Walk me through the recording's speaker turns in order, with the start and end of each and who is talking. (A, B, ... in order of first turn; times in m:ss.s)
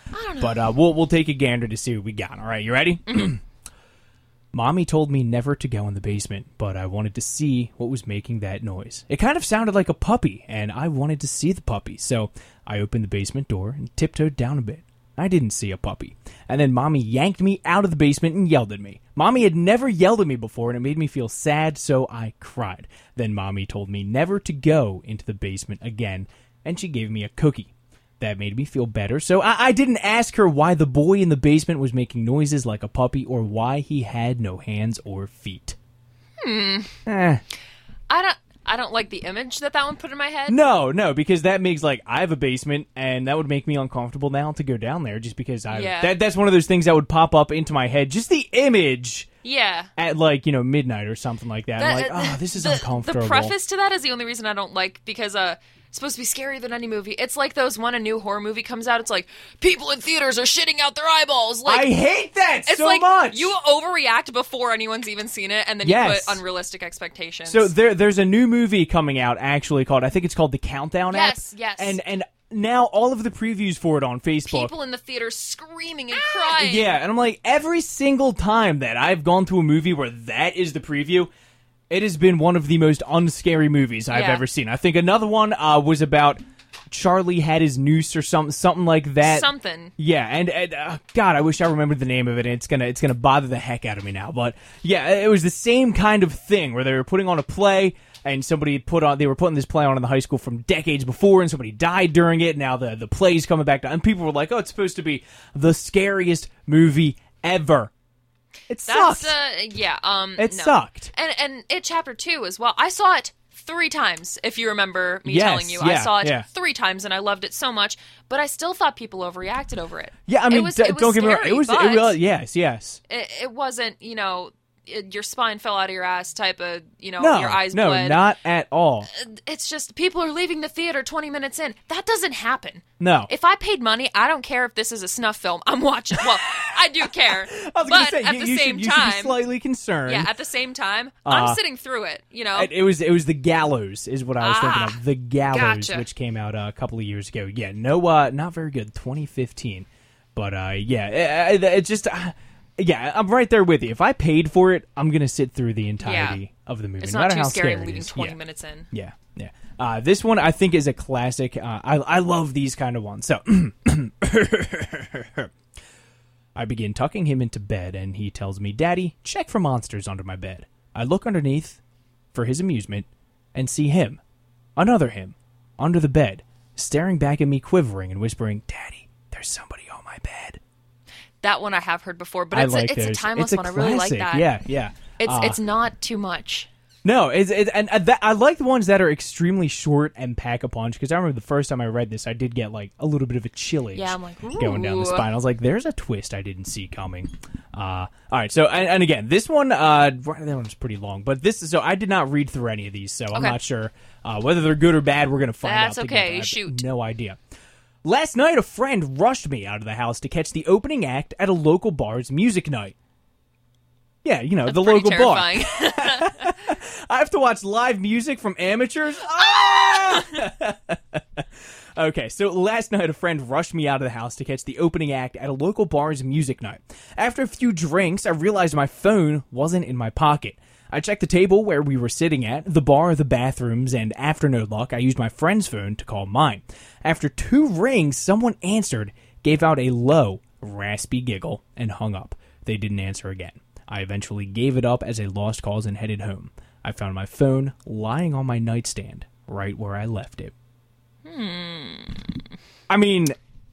0:00.1-0:00.6 A
0:00.4-0:03.4 B
0:03.1-0:03.3 A
0:04.5-0:35.8 B
0:36.4-0:36.9 A
0:37.0-0:37.4 B
0:38.1-0:40.6 A
0:40.5-0:49.3 B
0:45.7-0:46.1 A
0:49.4-0:49.9 A
0:50.0-0:53.6 B
0:51.8-1:01.9 A
1:01.6-1:03.5 B
1:02.7-1:07.7 A
1:05.8-1:06.4 B
1:07.5-1:14.7 B
1:11.1-1:12.0 A
1:14.5-1:17.0 A
1:16.4-1:21.3 B
1:21.9-1:47.9 B
1:24.1-1:24.4 A
1:29.2-1:29.9 A
1:48.7-1:49.4 B
1:48.9-2:02.2 A
1:50.4-1:51.1 B
1:55.3-1:56.4 B
2:00.3-2:03.0 B
2:03.1-2:08.2 A
2:07.2-2:09.1 B
2:09.1-2:19.4 A
2:13.0-2:13.3 B
2:16.2-2:20.3 B
2:20.1-2:22.7 A
2:21.2-2:21.6 B
2:22.6-2:38.4 B
2:24.4-2:25.0 A
2:25.5-2:26.1 A
2:36.0-2:36.4 A
2:37.0-2:38.9 A
2:38.9-2:45.5 B
2:46.6-2:51.8 B
2:52.3-2:54.2 B
2:54.8-3:00.6 B
3:01.4-3:04.5 A
3:02.5-3:05.6 B
3:05.2-3:06.7 A
3:07.0-3:27.4 B
3:13.9-3:15.3 A
3:23.3-3:23.6 A
3:25.6-3:26.8 A
3:28.0-3:32.9 B
3:34.2-3:41.4 B
3:34.6-3:36.5 A
3:39.6-3:40.4 A
3:42.0-4:10.5 B
4:11.2-4:12.4 A
4:12.9-4:13.4 B